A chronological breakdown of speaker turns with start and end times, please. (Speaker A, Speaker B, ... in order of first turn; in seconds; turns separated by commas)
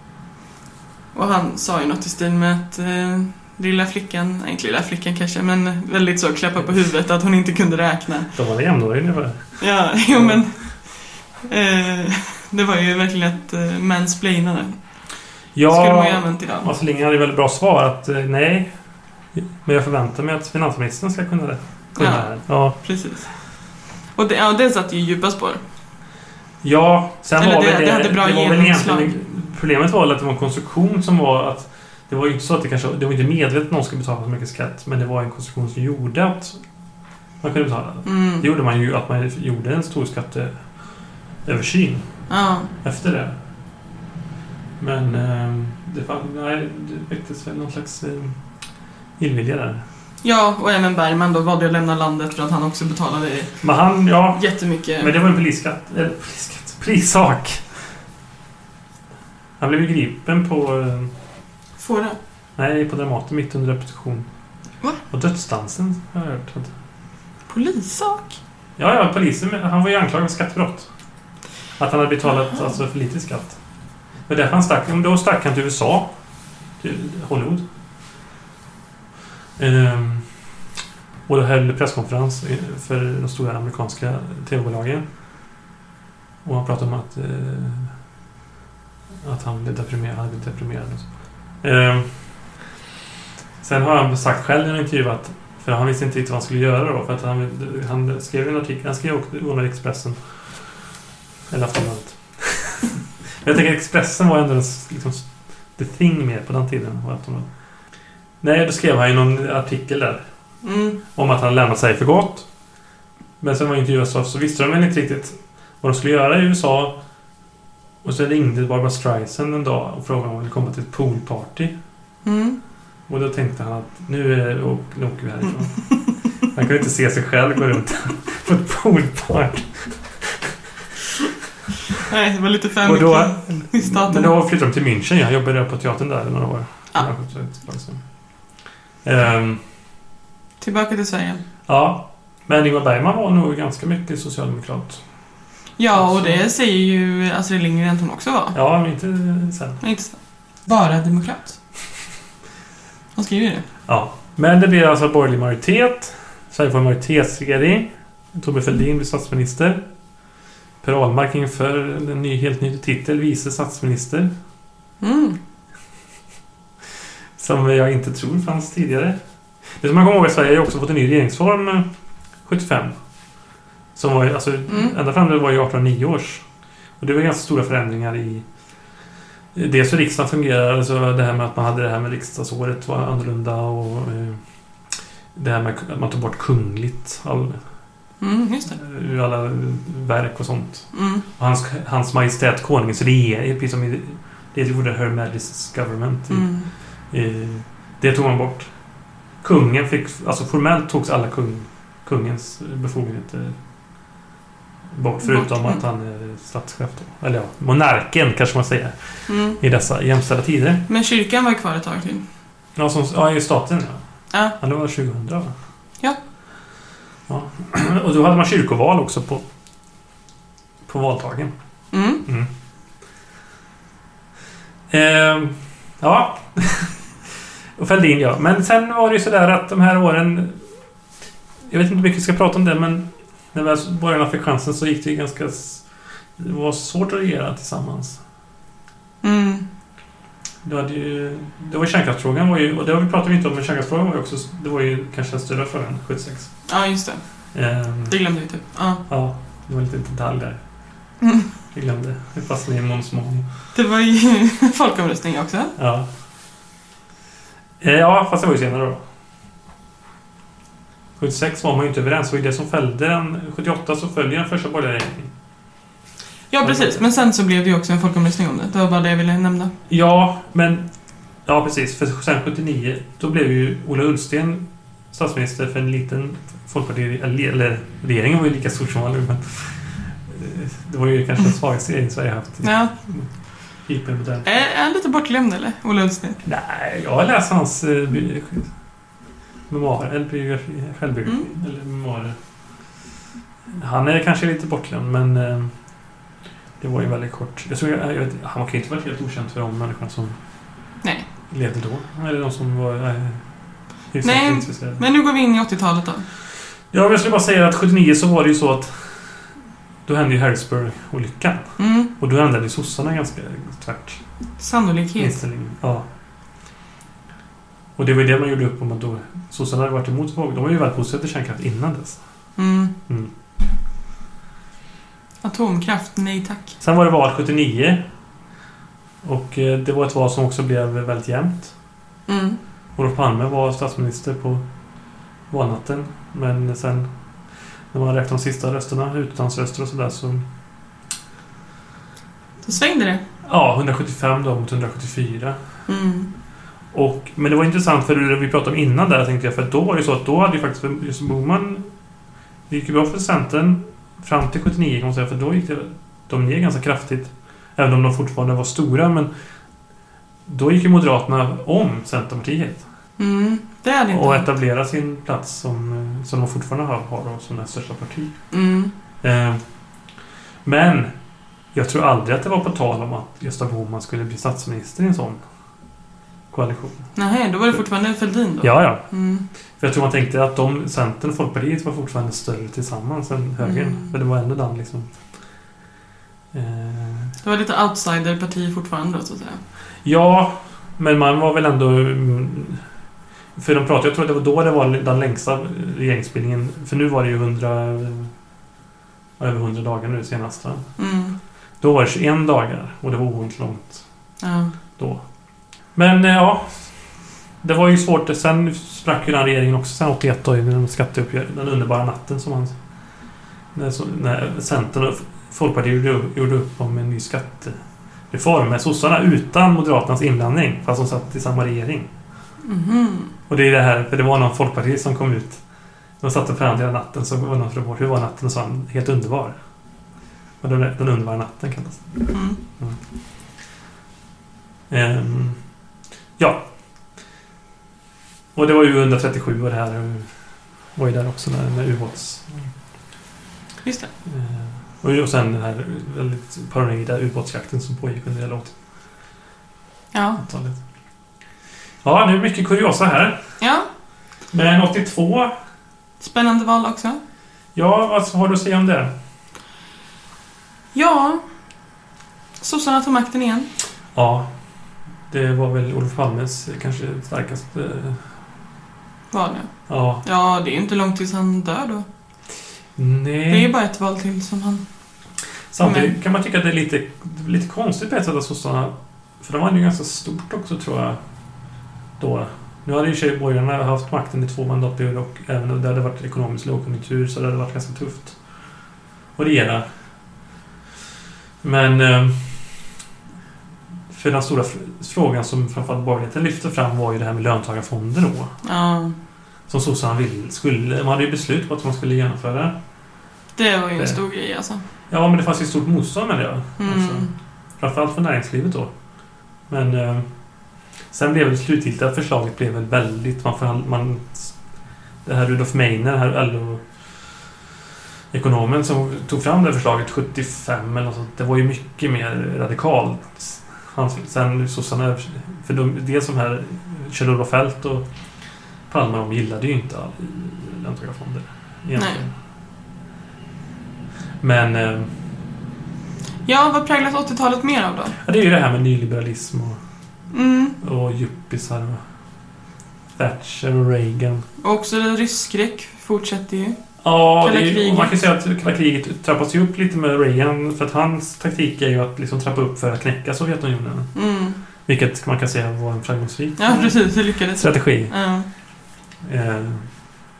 Speaker A: 1.1-8.3, Speaker B: 8.3-10.4, Speaker A: 9.6-14.8, Speaker B: 15.5-18.7, Speaker A: 15.7-16.7, Speaker B: 19.3-22.8, Speaker A: 22.0-23.3, Speaker A: 24.1-25.6, Speaker B: 26.6-36.6, Speaker A: 27.4-29.1, Speaker B: 37.4-40.6, Speaker A: 38.0-38.5, Speaker B: 41.4-42.1, Speaker A: 42.3-42.7, Speaker B: 42.8-43.4, Speaker B: 44.8-48.4, Speaker B: 49.2-49.8, Speaker A: 50.2-53.6, Speaker B: 53.6-57.7, Speaker A: 54.3-55.1, Speaker B: 59.6-61.1, Speaker A: 61.8-62.2, Speaker B: 62.6-64.3, Speaker B: 65.1-66.7, Speaker A: 67.5-68.4, Speaker B: 68.8-70.9, Speaker B: 71.8-73.6, Speaker B: 74.3-76.1, Speaker B: 76.8-77.6, Speaker B: 79.6-80.3, Speaker B: 81.3-85.0, Speaker B: 86.4-87.9, Speaker B: 89.2-91.1, Speaker B: 91.6-92.2, Speaker B: 93.6-100.2, Speaker B: 101.5-107.5, Speaker B: 108.4-110.2, Speaker A: 110.6-111.0, Speaker B: 111.1-112.5, Speaker B: 113.4-117.0, Speaker B: 118.0-121.7, Speaker A: 122.2-122.6, Speaker B: 123.1-130.4, Speaker A: 132.1-134.3, Speaker B: 132.8-138.0, Speaker B: 139.0-139.6, Speaker A: 140.6-141.4, Speaker B: 141.7-145.0, Speaker A: 145.8-148.6, Speaker B: 145.9-146.4, Speaker B: 148.5-149.8, Speaker A: 149.8-151.6, Speaker A: 153.2-153.6, Speaker B: 153.9-159.8, Speaker B: 160.8-164.3, Speaker A: 165.0-165.4, Speaker B: 167.4-169.2, Speaker B: 169.8-171.9, Speaker B: 172.4-172.9, Speaker B: 173.9-176.4, Speaker A: 174.7-174.9, Speaker B: 177.0-178.4, Speaker B: 179.5-184.4, Speaker B: 185.3-187.6, Speaker A: 188.2-188.8, Speaker B: 188.7-196.5, Speaker A: 190.9-191.2, Speaker A: 196.3-196.7, Speaker B: 197.1-198.7, Speaker B: 199.4-203.6, Speaker B: 204.9-210.8, Speaker A: 205.2-205.8, Speaker A: 209.3-209.6, Speaker A: 210.9-212.2, Speaker B: 212.8-214.0, Speaker B: 214.6-215.5, Speaker B: 217.3-219.4, Speaker B: 220.8-221.5, Speaker A: 221.9-222.2, Speaker B: 222.2-222.5, Speaker B: 224.9-227.0, Speaker B: 227.8-230.6, Speaker B: 231.7-235.8, Speaker B: 236.4-238.2, Speaker A: 239.2-239.6, Speaker B: 240.6-246.5, Speaker A: 246.7-247.2, Speaker B: 247.5-248.2, Speaker A: 248.1-249.0, Speaker B: 249.1-250.6, Speaker B: 251.7-253.4, Speaker A: 253.7-255.7, Speaker B: 255.8-256.1, Speaker B: 257.8-259.0, Speaker B: 261.2-265.3, Speaker A: 266.5-269.7, Speaker B: 266.6-267.0, Speaker B: 269.9-270.9, Speaker B: 271.4-283.3, Speaker A: 282.6-282.9, Speaker B: 283.8-284.5, Speaker A: 284.4-286.4, Speaker B: 286.4-288.7, Speaker B: 289.7-292.4, Speaker B: 293.7-295.7, Speaker B: 296.8-300.4, Speaker B: 301.5-303.4, Speaker B: 304.1-305.0, Speaker A: 304.2-306.2, Speaker B: 306.9-309.1, Speaker B: 310.1-314.2, Speaker A: 311.8-312.1, Speaker A: 314.6-315.4, Speaker B: 315.2-316.1, Speaker B: 317.9-322.2, Speaker A: 322.6-322.9, Speaker A: 325.4-326.7, Speaker B: 326.8-328.0, Speaker B: 329.2-331.7, Speaker A: 332.3-332.6, Speaker B: 332.9-334.6, Speaker B: 335.5-337.1, Speaker B: 337.9-340.4, Speaker A: 342.6-343.2, Speaker B: 343.4-345.6, Speaker A: 345.9-346.3, Speaker B: 346.9-351.9, Speaker B: 352.7-359.3, Speaker B: 360.4-362.8, Speaker A: 363.2-364.5, Speaker B: 364.1-368.4, Speaker A: 368.5-368.9, Speaker B: 369.2-369.6, Speaker B: 370.6-371.1, Speaker B: 371.7-375.4, Speaker B: 376.5-377.1, Speaker A: 377.1-379.4, Speaker B: 378.6-379.0, Speaker B: 379.8-385.1, Speaker A: 383.6-384.1, Speaker B: 386.5-387.3, Speaker A: 387.4-389.6, Speaker B: 390.0-392.8, Speaker B: 393.6-398.3, Speaker B: 399.4-400.9, Speaker A: 401.0-401.4, Speaker B: 401.8-404.0, Speaker A: 404.4-404.7, Speaker B: 405.0-405.2, Speaker B: 405.9-407.0, Speaker B: 407.6-412.8, Speaker B: 413.7-417.8, Speaker B: 418.3-422.1, Speaker A: 422.6-423.3, Speaker B: 423.5-425.6, Speaker B: 426.2-429.6, Speaker B: 430.6-433.0, Speaker A: 432.3-432.6, Speaker B: 434.9-435.6, Speaker B: 436.4-436.6, Speaker B: 438.5-440.3, Speaker B: 440.9-442.7, Speaker A: 443.8-444.1, Speaker B: 444.2-448.7, Speaker A: 450.1-450.4, Speaker B: 450.4-450.8, Speaker B: 452.0-453.4, Speaker A: 453.6-453.9, Speaker B: 454.5-455.5, Speaker A: 456.2-457.2, Speaker B: 457.7-459.1, Speaker A: 460.9-461.4, Speaker A: 462.6-463.7, Speaker B: 464.1-464.5, Speaker B: 465.3-468.2, Speaker A: 469.3-469.7, Speaker B: 469.9-470.2, Speaker A: 470.2-472.1, Speaker B: 472.9-473.7, Speaker A: 473.5-474.8, Speaker B: 475.7-481.2, Speaker A: 475.8-476.1, Speaker B: 482.2-488.4, Speaker B: 489.4-489.9, Speaker B: 491.6-492.8, Speaker B: 494.1-498.5, Speaker A: 498.6-499.1, Speaker B: 499.7-502.8, Speaker A: 503.6-504.8, Speaker B: 505.1-508.9, Speaker A: 506.8-507.3, Speaker B: 509.7-510.3, Speaker B: 511.1-514.5, Speaker B: 515.2-516.9, Speaker B: 518.3-528.0, Speaker B: 528.9-532.3, Speaker A: 532.0-532.2, Speaker B: 534.4-535.1, Speaker A: 536.5-538.1, Speaker B: 538.2-539.8, Speaker A: 540.3-540.8, Speaker B: 540.8-542.0, Speaker B: 543.1-544.4, Speaker A: 544.6-546.8, Speaker B: 547.0-554.1, Speaker A: 547.4-548.1, Speaker A: 554.1-554.6, Speaker B: 554.9-558.1, Speaker A: 556.6-558.5, Speaker B: 559.2-559.9